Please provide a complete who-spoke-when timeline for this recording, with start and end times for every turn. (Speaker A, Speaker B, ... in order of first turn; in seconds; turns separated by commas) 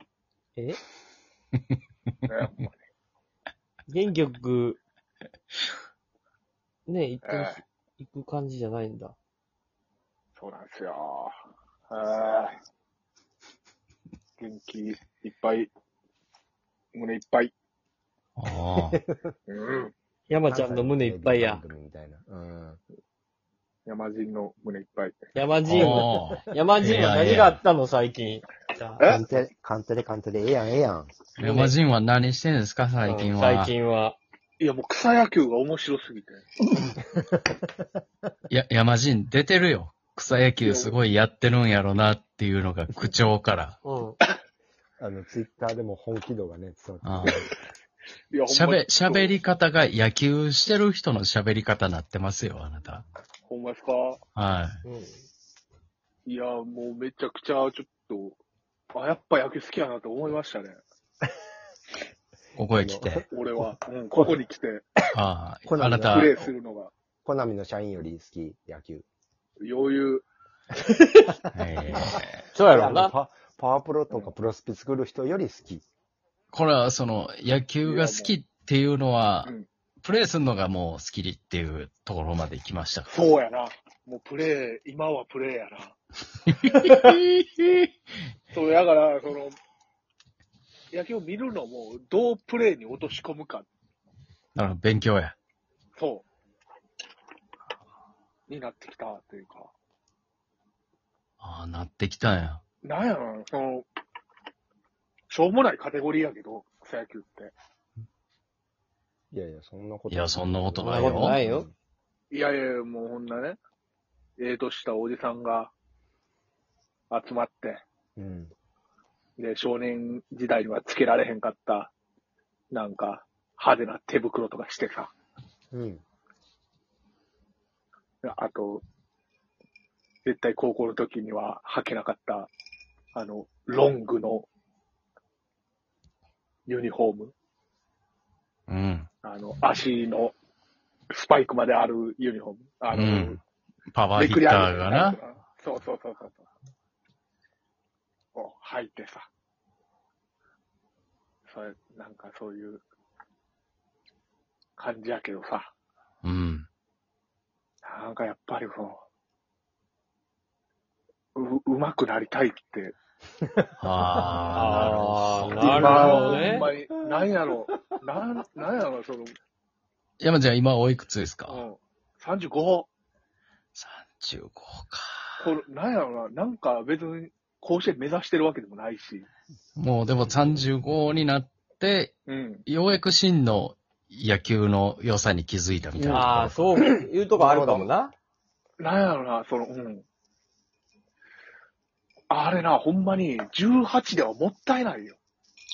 Speaker A: 2.3-2.8, Speaker B: 3.9-4.8, Speaker B: 6.9-9.2, Speaker A: 7.2-7.6, Speaker A: 10.4-11.4, Speaker A: 11.9-12.6, Speaker A: 14.4-15.7, Speaker A: 16.9-17.5, Speaker C: 18.4-19.0, Speaker D: 18.9-19.3, Speaker A: 19.5-19.9, Speaker B: 20.3-21.6, Speaker D: 20.5-22.8, Speaker A: 23.9-25.2, Speaker B: 25.3-29.2, Speaker C: 25.7-27.6, Speaker D: 29.0-31.2, Speaker C: 31.4-33.8, Speaker B: 31.4-31.7, Speaker B: 33.0-34.2, Speaker A: 34.6-36.4, Speaker D: 37.2-37.7, Speaker C: 38.5-43.8, Speaker A: 40.6-41.0, Speaker B: 43.9-44.2, Speaker D: 45.0-47.4, Speaker C: 47.0-47.5, Speaker A: 48.3-49.4, Speaker C: 48.5-53.0, Speaker A: 53.5-54.2, Speaker C: 54.4-54.8, Speaker B: 54.9-55.1, Speaker A: 56.3-58.4, Speaker A: 58.9-60.8, Speaker C: 62.6-63.2, Speaker D: 62.8-64.4, Speaker A: 63.3-64.8, Speaker C: 65.1-66.3, Speaker D: 65.7-66.3, Speaker A: 66.1-66.9, Speaker D: 67.2-69.0, Speaker A: 69.6-70.3, Speaker B: 70.9-71.3, Speaker D: 71.5-72.2, Speaker C: 71.5-72.5, Speaker B: 72.5-73.1, Speaker D: 72.7-75.8, Speaker C: 76.5-83.1, Speaker A: 77.8-78.3, Speaker A: 83.1-86.0, Speaker C: 86.5-87.9, Speaker A: 88.5-89.6, Speaker A: 90.9-93.7, Speaker C: 94.5-95.4, Speaker A: 96.0-96.3, Speaker A: 98.5-99.7, Speaker C: 101.4-102.6, Speaker A: 102.8-103.9, Speaker A: 105.3-107.5, Speaker D: 109.3-111.7, Speaker C: 110.1-111.4, Speaker B: 110.8-111.7, Speaker A: 112.3-113.6, Speaker A: 114.4-115.7, Speaker A: 117.1-117.8, Speaker D: 118.2-118.5, Speaker A: 119.4-121.9, Speaker A: 122.7-125.1, Speaker D: 125.7-126.0, Speaker A: 128.2-128.8, Speaker A: 130.2-132.5, Speaker A: 133.1-134.5, Speaker A: 136.7-137.3, Speaker C: 138.7-139.1, Speaker A: 139.2-140.3, Speaker A: 141.1-143.4, Speaker C: 142.9-145.2, Speaker A: 144.2-146.5, Speaker A: 148.3-149.3, Speaker A: 151.5-152.8, Speaker A: 154.8-155.7, Speaker C: 156.2-156.7, Speaker A: 157.8-159.0, Speaker A: 161.3-163.0, Speaker C: 163.8-166.3, Speaker B: 164.5-166.7, Speaker D: 165.6-166.8, Speaker A: 165.6-169.3, Speaker C: 170.2-171.7, Speaker A: 171.5-172.9, Speaker C: 173.8-175.5, Speaker A: 175.4-179.3, Speaker C: 179.8-186.8, Speaker A: 182.3-182.7, Speaker D: 186.0-187.9, Speaker B: 186.1-188.1, Speaker A: 188.8-190.1, Speaker A: 192.3-195.2